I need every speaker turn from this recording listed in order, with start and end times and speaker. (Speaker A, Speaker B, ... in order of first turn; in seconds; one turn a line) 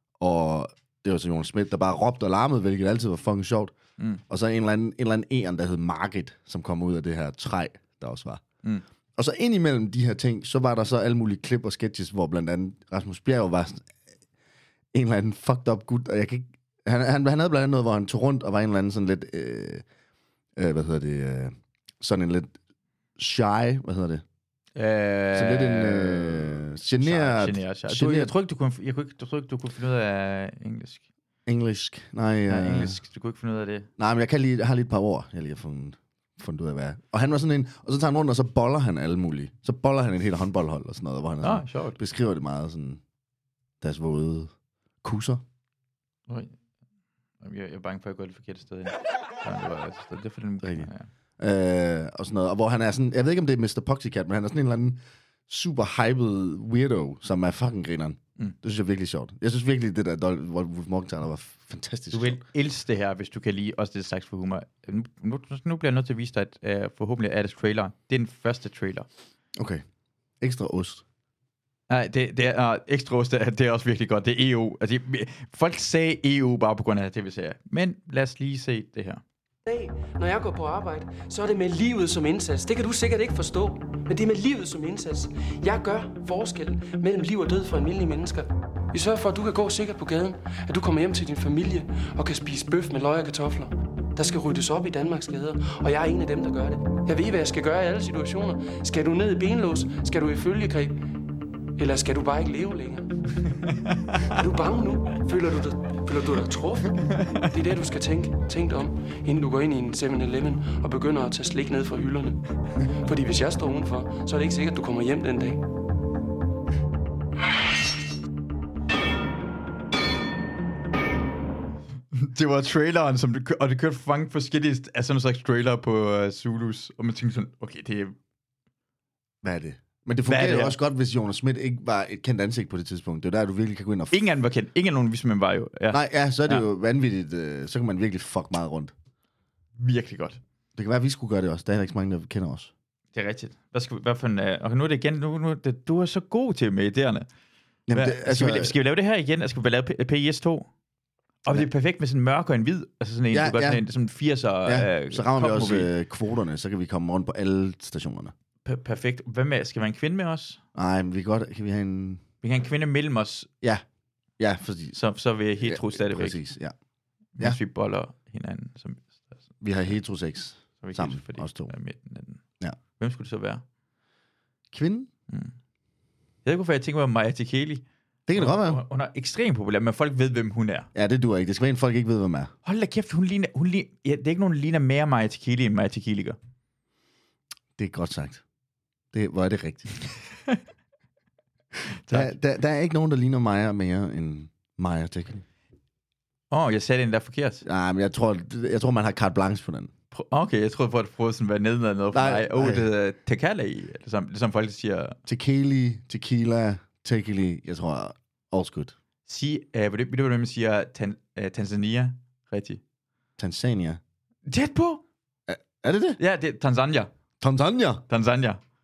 Speaker A: 0.2-3.7
Speaker A: 4.3-8.4
Speaker A: 9.2-13.9
Speaker A: 14.9-19.8
Speaker A: 20.6-22.5
Speaker A: 23.2-24.2
Speaker B: 24.8-31.0
Speaker A: 25.3-28.3
Speaker A: 31.4-33.0
Speaker B: 32.5-33.9
Speaker A: 34.0-43.0
Speaker B: 41.4-42.0
Speaker A: 43.8-44.5
Speaker A: 45.0-45.4
Speaker B: 46.3-46.5
Speaker B: 47.4-51.1
Speaker A: 50.6-62.4
Speaker B: 62.1-69.1
Speaker A: 69.5-69.8
Speaker A: 70.4-71.0
Speaker B: 71.9-79.2
Speaker C: 79.7-101.0
Speaker C: 101.8-103.2
Speaker B: 103.9-104.3
Speaker C: 104.2-115.6
Speaker B: 107.2-107.5
Speaker B: 122.1-128.1
Speaker A: 129.4-134.2
Speaker B: 130.3-130.8
Speaker B: 134.1-136.6
Speaker A: 135.9-138.9
Speaker B: 139.8-140.4
Speaker A: 140.8-142.7
Speaker B: 143.1-147.3
Speaker A: 147.9-148.7
Speaker B: 147.9-150.7
Speaker B: 151.4-155.9
Speaker A: 153.3-153.8
Speaker A: 154.6-158.3
Speaker B: 158.6-160.6
Speaker A: 160.7-162.2
Speaker B: 162.4-163.5
Speaker A: 164.4-164.9
Speaker B: 164.9-166.4
Speaker A: 165.6-166.7
Speaker B: 167.4-169.2
Speaker A: 169.6-171.7
Speaker B: 170.8-172.4
Speaker B: 173.0-173.6
Speaker A: 174.7-175.1
Speaker B: 176.4-177.8
Speaker A: 178.3-178.8
Speaker B: 178.3-180.9
Speaker A: 180.9-182.5
Speaker B: 182.6-186.4
Speaker A: 187.8-188.4
Speaker A: 189.1-189.9
Speaker B: 192.1-192.3
Speaker A: 192.1-195.4
Speaker B: 196.5-197.6
Speaker A: 197.6-199.9
Speaker B: 200.1-205.2
Speaker A: 202.1-202.8
Speaker A: 205.3-208.9
Speaker B: 209.3-212.8
Speaker A: 213.4-214.0
Speaker B: 214.5-215.0
Speaker A: 215.5-216.2
Speaker B: 216.2-217.1
Speaker A: 217.4-218.0
Speaker B: 218.1-218.6